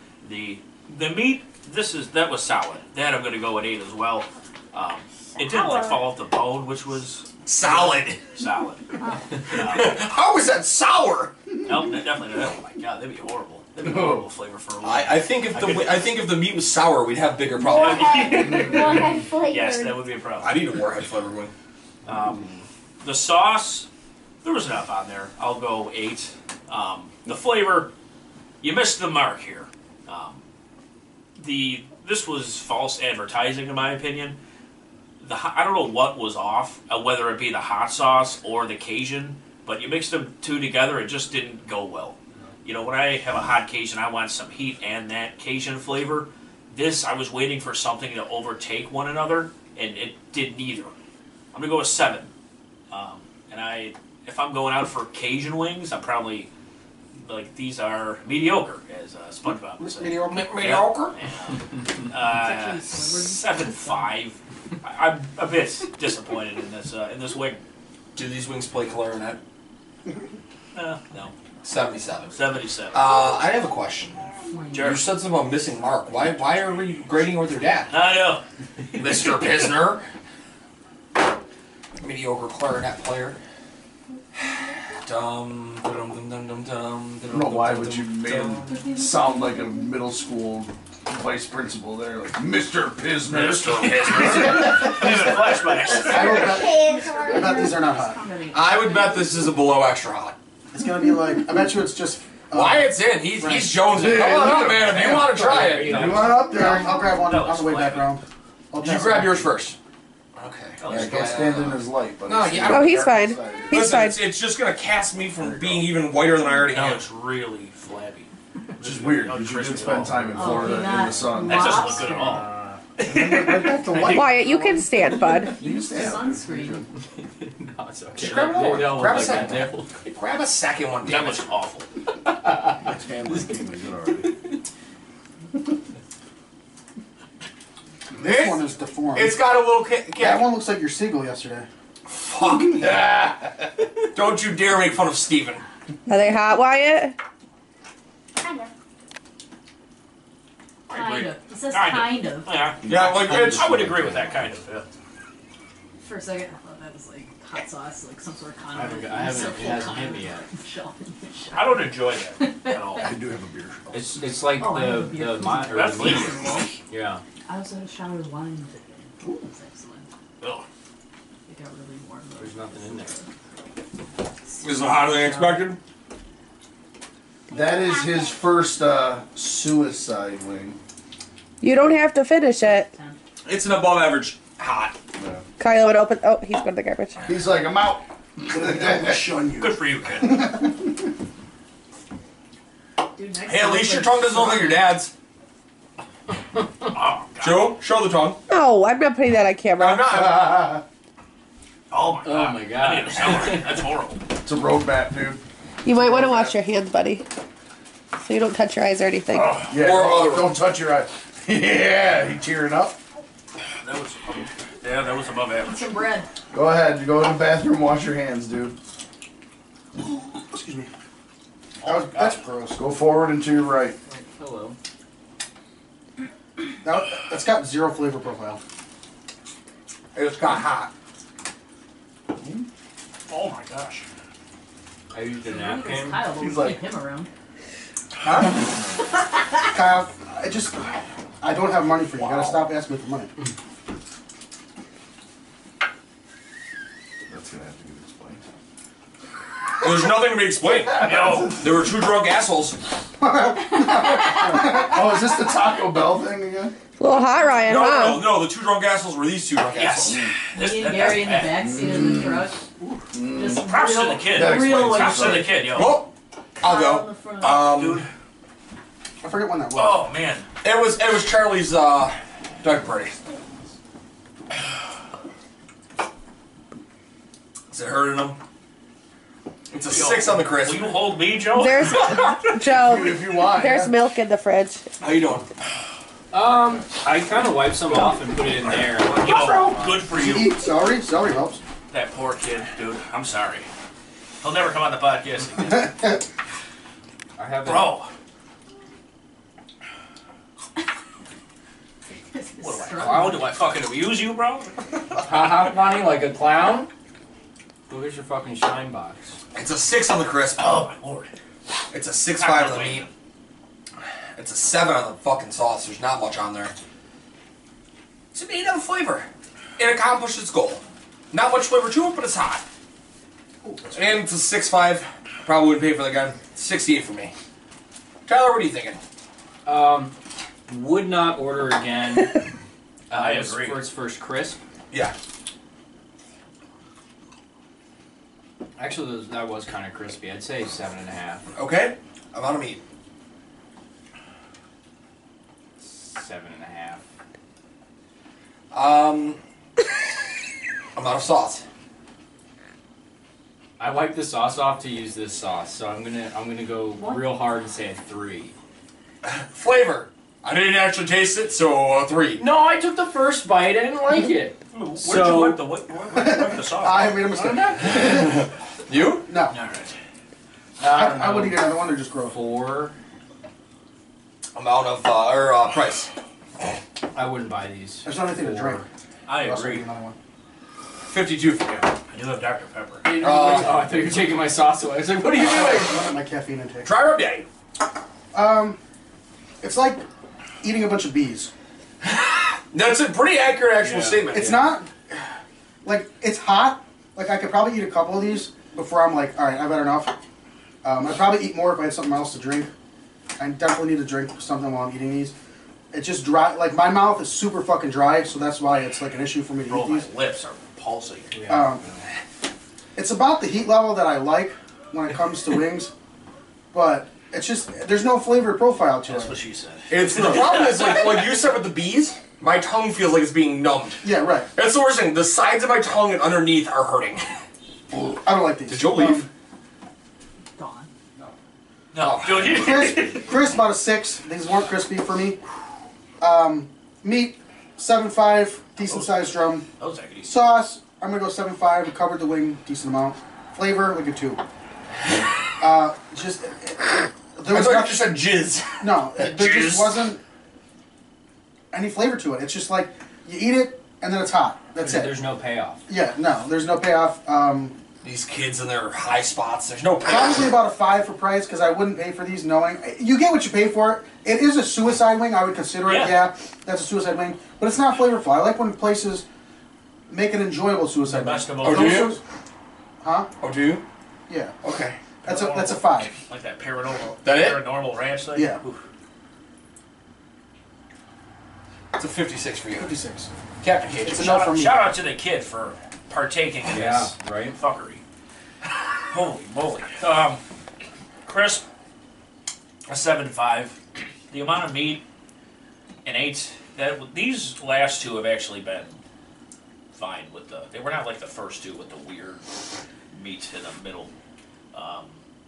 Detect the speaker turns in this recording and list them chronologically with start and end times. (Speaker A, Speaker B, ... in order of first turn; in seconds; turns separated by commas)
Speaker A: 0.2-10.0, Speaker B: 5.4-6.0, Speaker C: 7.5-8.2, Speaker C: 9.5-11.3, Speaker A: 11.6-16.1, Speaker D: 13.8-14.2, Speaker C: 14.8-18.4, Speaker B: 17.5-20.0, Speaker A: 17.7-20.5, Speaker C: 20.4-21.5, Speaker A: 22.1-23.9, Speaker A: 24.4-27.9, Speaker A: 28.6-30.4, Speaker A: 31.4-34.4, Speaker A: 35.2-50.9, Speaker A: 51.5-52.3, Speaker A: 52.9-56.5, Speaker A: 57.2-67.6, Speaker E: 59.8-60.5, Speaker C: 60.2-61.1, Speaker F: 62.2-64.2, Speaker C: 68.1-69.4, Speaker A: 70.7-71.3, Speaker C: 71.6-72.3, Speaker A: 72.3-73.1, Speaker C: 72.9-74.2, Speaker F: 74.5-75.0, Speaker A: 74.7-75.0, Speaker C: 74.8-78.0, Speaker A: 77.9-79.5, Speaker C: 78.9-80.0, Speaker C: 82.0-83.4, Speaker C: 85.0-88.7, Speaker D: 87.3-95.3, Speaker A: 93.3-96.6, Speaker C: 93.5-94.7, Speaker E: 96.0-98.2, Speaker B: 96.1-98.2, Speaker F: 97.2-99.3, Speaker C: 98.5-100.3, Speaker E: 100.7-104.0, Speaker C: 102.5-106.3, Speaker D: 103.9-107.0, Speaker G: 105.2-106.5, Speaker E: 106.1-109.6, Speaker A: 107.0-108.1, Speaker C: 108.8-109.8, Speaker C: 110.3-113.1, Speaker A: 110.8-111.5, Speaker D: 110.9-114.0, Speaker H: 112.7-114.3, Speaker C: 113.7-117.0, Speaker D: 115.4-115.9, Speaker A: 116.7-122.5, Speaker D: 118.8-122.0, Speaker F: 120.3-122.5, Speaker G: 122.3-122.8, Speaker E: 123.0-124.8, Speaker A: 123.0-124.1, Speaker H: 124.0-125.6, Speaker F: 125.4-126.9, Speaker D: 125.4-126.9, Speaker G: 127.2-130.1, Speaker C: 128.2-131.4, Speaker A: 131.0-131.8, Speaker D: 132.8-134.3, Speaker E: 138.2-139.5, Speaker C: 138.2-138.6, Speaker C: 139.1-140.5, Speaker E: 140.1-141.7, Speaker C: 142.2-143.3, Speaker D: 142.4-143.5, Speaker C: 144.1-145.6, Speaker H: 146.1-147.2, Speaker B: 148.4-148.7, Speaker F: 150.9-152.7, Speaker A: 150.9-154.9, Speaker D: 152.8-154.4, Speaker C: 152.8-153.8, Speaker F: 156.0-163.1, Speaker G: 158.7-160.5, Speaker A: 161.5-163.1, Speaker D: 163.0-164.3, Speaker G: 163.9-166.3, Speaker F: 164.5-166.7, Speaker A: 165.7-166.7, Speaker G: 166.9-167.2, Speaker F: 167.5-170.1, Speaker A: 170.4-170.6, Speaker F: 171.5-173.3, Speaker G: 172.4-173.2, Speaker F: 174.5-175.7, Speaker C: 174.6-175.8, Speaker D: 177.5-180.8, Speaker B: 177.5-178.4, Speaker H: 181.6-182.9, Speaker F: 182.6-183.2, Speaker C: 183.4-184.9, Speaker D: 185.2-185.4, Speaker H: 185.6-187.3, Speaker D: 187.2-189.3, Speaker E: 188.5-190.6, Speaker A: 189.6-190.5, Speaker F: 193.1-194.9, Speaker C: 193.4-195.1, Speaker A: 196.9-197.8, Speaker C: 197.4-198.4, Speaker H: 198.5-200.5, Speaker C: 199.8-200.8, Speaker D: 200.4-200.8, Speaker A: 201.9-204.2, Speaker G: 202.2-203.7, Speaker D: 204.4-205.4, Speaker H: 205.8-207.3, Speaker D: 205.9-206.5, Speaker H: 208.2-209.7, Speaker D: 209.3-213.0, Speaker C: 209.6-210.6, Speaker A: 213.8-215.9, Speaker F: 215.6-216.3, Speaker D: 216.5-218.7, Speaker E: 220.0-220.9, Speaker A: 221.8-222.4, Speaker E: 221.8-222.9, Speaker D: 222.8-224.0, Speaker G: 224.1-224.8, Speaker E: 226.8-228.6, Speaker C: 230.1-230.9, Speaker D: 232.4-232.6, Speaker A: 233.3-234.1, Speaker G: 235.1-236.2, Speaker F: 235.4-237.3, Speaker D: 236.3-236.9, Speaker E: 238.2-238.6, Speaker E: 239.7-243.3, Speaker D: 247.3-248.4, Speaker C: 249.8-252.8, Speaker D: 250.8-251.8, Speaker A: 250.9-251.6, Speaker E: 253.2-255.0, Speaker D: 254.4-256.7, Speaker H: 257.0-258.4, Speaker F: 257.3-257.7, Speaker C: 257.6-260.2, Speaker A: 259.7-261.7, Speaker F: 260.5-262.6, Speaker D: 261.6-262.5, Speaker D: 263.1-263.7, Speaker F: 263.3-265.7, Speaker A: 263.5-266.0, Speaker D: 264.3-265.6, Speaker C: 265.6-268.1, Speaker F: 266.6-267.8, Speaker A: 267.6-268.1, Speaker E: 269.2-270.1, Speaker A: 269.7-270.5, Speaker C: 270.6-273.2, Speaker C: 277.7-278.4, Speaker C: 279.7-281.0, Speaker A: 279.9-282.6, Speaker H: 281.5-284.9, Speaker D: 282.7-283.9, Speaker C: 285.0-285.5, Speaker G: 286.3-290.0, Speaker A: 289.1-290.6, Speaker E: 289.2-291.6, Speaker A: 291.9-293.7, Speaker A: 294.4-296.1, Speaker G: 297.4-297.9, Speaker A: 297.6-298.1, Speaker F: 302.3-303.5, Speaker A: 302.6-304.9, Speaker G: 305.2-306.9, Speaker G: 307.9-309.4, Speaker C: 309.5-310.9, Speaker A: 310.6-311.3, Speaker C: 311.9-313.1, Speaker A: 312.4-313.1, Speaker C: 314.4-316.7, Speaker C: 318.3-322.6, Speaker E: 323.6-324.1, Speaker C: 323.9-327.3, Speaker C: 328.2-329.0, Speaker G: 329.6-330.1, Speaker G: 330.7-332.4, Speaker A: 333.1-333.8, Speaker G: 333.1-334.6, Speaker G: 338.8-341.4, Speaker C: 341.5-342.8, Speaker G: 345.8-347.0, Speaker C: 348.7-349.4, Speaker C: 350.9-351.6, Speaker G: 353.8-358.5, Speaker F: 356.9-357.4, Speaker C: 359.2-362.4, Speaker G: 362.4-365.6, Speaker A: 364.7-367.2, Speaker E: 366.1-368.4, Speaker G: 367.3-368.0, Speaker C: 367.9-369.3, Speaker E: 369.3-369.5, Speaker A: 369.5-369.9, Speaker G: 370.8-371.7, Speaker E: 370.8-372.4, Speaker G: 372.2-372.9, Speaker C: 374.5-376.1, Speaker G: 377.1-378.8, Speaker E: 378.0-378.8, Speaker A: 379.2-379.9, Speaker E: 379.4-380.1, Speaker C: 381.1-381.9, Speaker A: 382.1-383.1, Speaker G: 383.0-386.0, Speaker C: 383.2-384.0, Speaker E: 385.3-386.9, Speaker C: 386.8-387.5, Speaker E: 388.3-388.8, Speaker E: 389.6-390.0, Speaker E: 390.6-391.5, Speaker C: 392.3-394.7, Speaker G: 393.8-394.7, Speaker E: 394.3-395.2, Speaker E: 395.8-400.1, Speaker E: 400.8-402.7, Speaker E: 403.4-405.3, Speaker E: 405.9-410.1, Speaker A: 409.7-411.4, Speaker G: 411.3-412.0, Speaker E: 411.5-411.8, Speaker E: 412.9-415.9, Speaker E: 416.7-419.4, Speaker A: 419.1-421.3, Speaker C: 419.9-424.0, Speaker E: 424.0-424.5, Speaker C: 424.5-427.3, Speaker E: 427.9-429.3, Speaker C: 428.7-429.3, Speaker F: 430.6-430.9, Speaker A: 431.9-433.3, Speaker C: 432.0-432.8, Speaker E: 432.4-435.4, Speaker E: 436.2-439.6, Speaker A: 438.8-440.5, Speaker E: 440.2-444.4, Speaker E: 445.6-448.2, Speaker C: 447.5-450.1, Speaker E: 448.8-450.2, Speaker E: 451.7-455.2, Speaker G: 454.8-455.8, Speaker E: 455.9-457.8, Speaker C: 458.0-460.5, Speaker E: 460.1-469.2, Speaker A: 465.8-466.3, Speaker E: 470.1-472.2, Speaker A: 471.0-472.1, Speaker C: 471.6-472.2, Speaker E: 473.0-473.3, Speaker C: 473.4-473.8, Speaker E: 474.3-474.6, Speaker C: 474.6-475.0, Speaker A: 475.2-478.8, Speaker E: 475.2-476.1, Speaker C: 477.2-477.6, Speaker E: 478.3-478.6, Speaker C: 481.9-482.9, Speaker E: 482.7-483.3, Speaker C: 483.6-484.3, Speaker E: 484.0-484.9, Speaker A: 484.1-488.0, Speaker G: 486.7-487.6, Speaker A: 489.1-490.4, Speaker A: 491.2-491.6, Speaker A: 492.9-493.8, Speaker A: 494.3-495.0, Speaker A: 496.0-499.0, Speaker A: 499.9-502.5, Speaker A: 503.1-504.1, Speaker A: 504.7-505.2